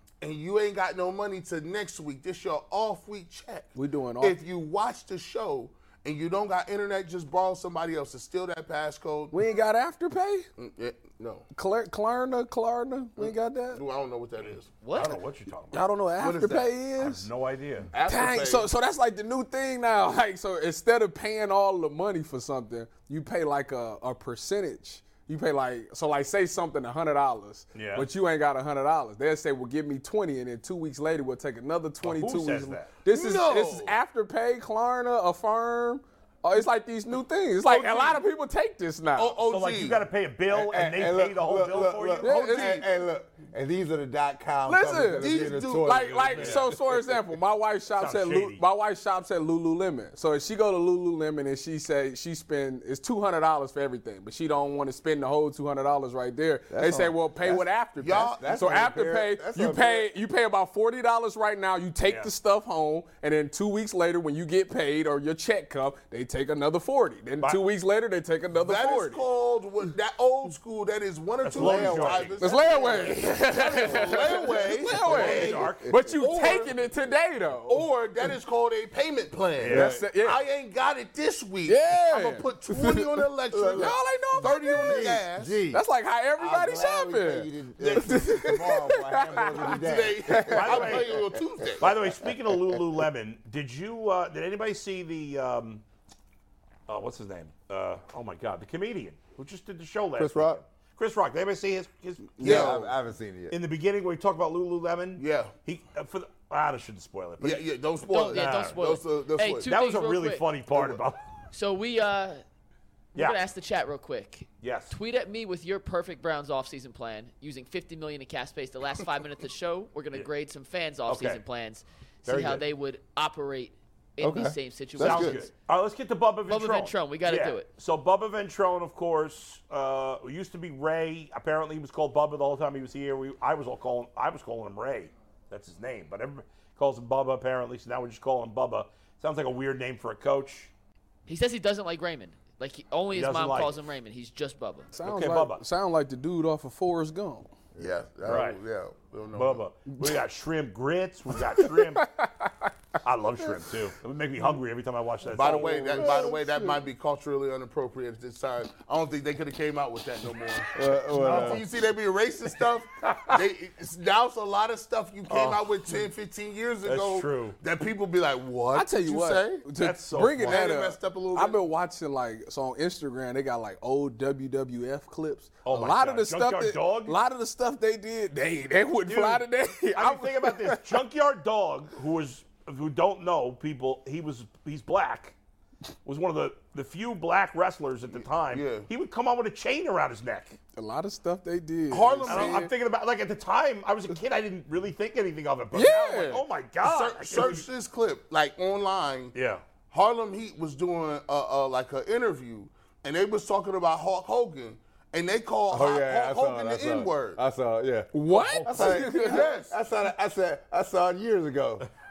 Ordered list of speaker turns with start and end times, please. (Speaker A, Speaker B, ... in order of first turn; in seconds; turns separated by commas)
Speaker A: 0.2-9.3, Speaker B: 3.7-4.4, Speaker B: 9.3-10.5, Speaker A: 10.6-11.4, Speaker B: 11.5-13.8, Speaker A: 13.2-14.7, Speaker C: 14.8-15.2, Speaker D: 14.9-15.8, Speaker B: 15.7-17.3, Speaker A: 16.2-16.7, Speaker D: 17.0-17.9, Speaker A: 17.9-18.7, Speaker B: 18.0-39.4, Speaker D: 27.7-28.1, Speaker D: 32.0-32.9, Speaker A: 33.1-34.0, Speaker D: 37.6-38.2, Speaker A: 39.1-40.0, Speaker D: 39.4-42.3, Speaker E: 40.5-46.6, Speaker B: 42.2-42.8, Speaker A: 42.2-42.8, Speaker B: 44.7-69.2, Speaker A: 45.1-46.7, Speaker D: 46.4-46.7, Speaker D: 47.9-48.6, Speaker E: 56.7-57.7, Speaker A: 58.0-58.8, Speaker E: 58.4-60.1, Speaker A: 68.5-76.8, Speaker D: 71.4-72.4, Speaker E: 71.5-72.3, Speaker B: 72.4-77.8, Speaker D: 75.0-75.9, Speaker A: 77.7-85.6, Speaker D: 79.6-79.9, Speaker E: 79.7-80.1, Speaker B: 79.7-80.4, Speaker B: 81.7-83.0, Speaker E: 83.5-85.8, Speaker B: 83.7-85.2, Speaker B: 85.7-89.8, Speaker E: 86.4-92.8, Speaker A: 87.8-88.3, Speaker A: 89.6-91.9, Speaker D: 90.5-91.1, Speaker D: 91.8-95.8, Speaker D: 96.9-102.6, Speaker E: 100.2-100.6, Speaker B: 102.4-102.9, Speaker A: 102.4-102.8, Speaker E: 102.4-103.6, Speaker D: 103.5-107.7, Speaker A: 105.2-105.5, Speaker A: 107.4-109.7, Speaker C: 108.1-110.5, Speaker D: 108.3-108.8, Speaker D: 109.6-111.2, Speaker A: 110.7-111.0, Speaker C: 111.5-112.4, Speaker C: 113.1-125.5, Speaker D: 114.6-114.9, Speaker D: 121.1-121.4, Speaker E: 122.3-122.6, Speaker E: 124.2-125.4, Speaker D: 125.0-140.7, Speaker C: 126.5-127.7, Speaker C: 141.3-144.9, Speaker D: 143.1-143.7, Speaker B: 144.9-147.5, Speaker D: 145.0-145.6, Speaker A: 147.8-149.6, Speaker D: 148.2-148.6, Speaker D: 149.3-152.1, Speaker B: 151.6-152.7, Speaker D: 153.0-155.8, Speaker A: 155.3-169.6, Speaker B: 155.4-156.7, Speaker E: 155.9-156.4, Speaker E: 160.7-161.6, Speaker B: 161.2-161.6, Speaker D: 163.0-163.3, Speaker D: 165.3-165.6, Speaker D: 166.8-167.6, Speaker B: 168.7-180.8, Speaker D: 169.8-170.6, Speaker A: 170.3-171.6, Speaker D: 175.6-177.2, Speaker D: 179.1-185.3, Speaker D: 186.0-190.6, Speaker A: 188.1-188.9, Speaker B: 190.8-192.7, Speaker A: 191.9-192.7, Speaker D: 192.3-197.7, Speaker B: 195.7-196.4, Speaker A: 196.8-199.3, Speaker D: 199.3-199.6, Speaker A: 199.9-207.4, Speaker E: 205.7-208.1, Speaker B: 208.1-209.5, Speaker D: 208.3-208.8, Speaker E: 208.6-211.9, Speaker A: 208.7-209.7